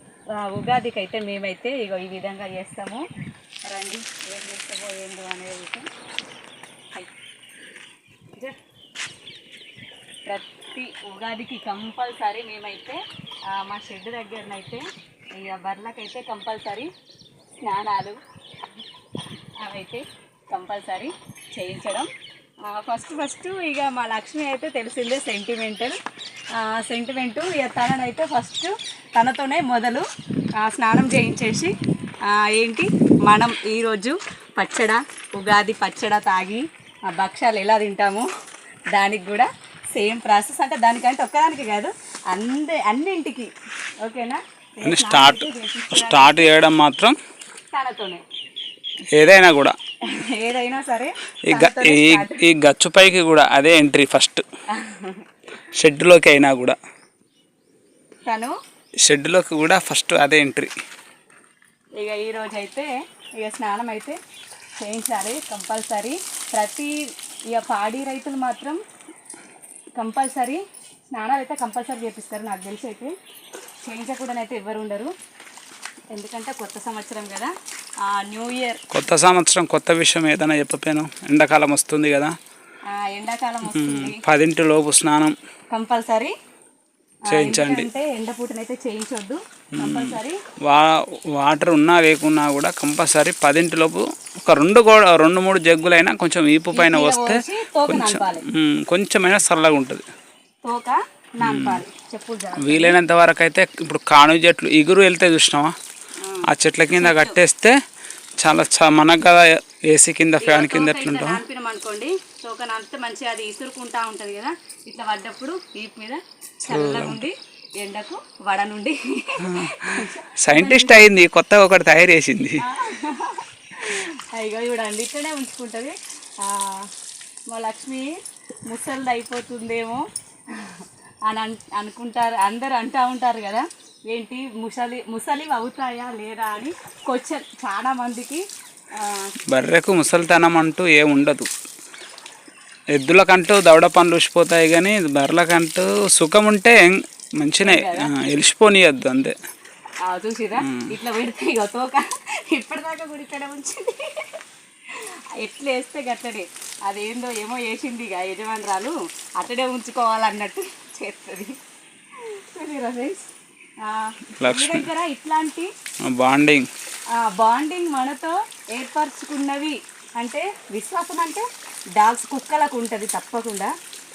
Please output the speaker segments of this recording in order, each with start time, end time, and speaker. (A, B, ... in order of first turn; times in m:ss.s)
0:00.3-0:03.0 A
0:03.6-0:05.9 A
0:10.3-0:16.9 A
0:17.6-0:18.2 A
0:19.6-0:22.1 A
0:22.6-0:26.0 A
0:26.5-0:30.0 A
0:30.6-0:38.3 A
0:38.9-0:43.5 A
0:44.0-0:46.5 A
0:44.8-0:47.2 B
0:47.7-0:48.2 A
0:49.1-0:49.8 B
0:50.0-0:52.4 A
0:51.5-0:54.4 B
0:54.7-0:55.2 A
0:55.7-0:56.8 B
0:58.2-0:58.6 A
0:59.0-1:00.7 B
1:02.0-1:04.2 A
1:04.8-1:08.8 A
1:10.0-1:13.2 A
1:13.8-1:15.1 A
1:16.1-1:17.5 A
1:18.0-1:18.8 A
1:18.9-1:22.3 B
1:22.9-1:24.2 A
1:23.6-1:25.4 B
1:25.7-1:26.3 A
1:27.3-1:30.4 A
1:27.3-1:27.9 B
1:29.8-1:40.0 B
1:36.7-1:38.4 A
1:40.6-1:43.0 A
1:41.4-1:41.8 B
1:42.6-1:45.7 B
1:46.2-1:47.4 A
1:46.5-1:47.8 B
1:48.4-1:51.4 B
1:50.4-2:01.0 A
1:56.6-1:57.2 B
1:59.4-2:02.6 B
2:02.6-2:06.9 A
2:07.5-2:08.2 A
2:08.7-2:18.4 A
2:19.0-2:19.3 A
2:19.5-2:21.5 B
2:22.9-2:29.4 B
2:27.6-2:28.1 A
2:30.0-2:34.3 A
2:30.6-2:30.9 B
2:34.9-2:41.6 A
2:42.1-2:43.3 A
2:43.8-2:45.7 A
2:44.4-2:44.9 B
2:46.0-2:46.7 B
2:47.1-2:53.7 A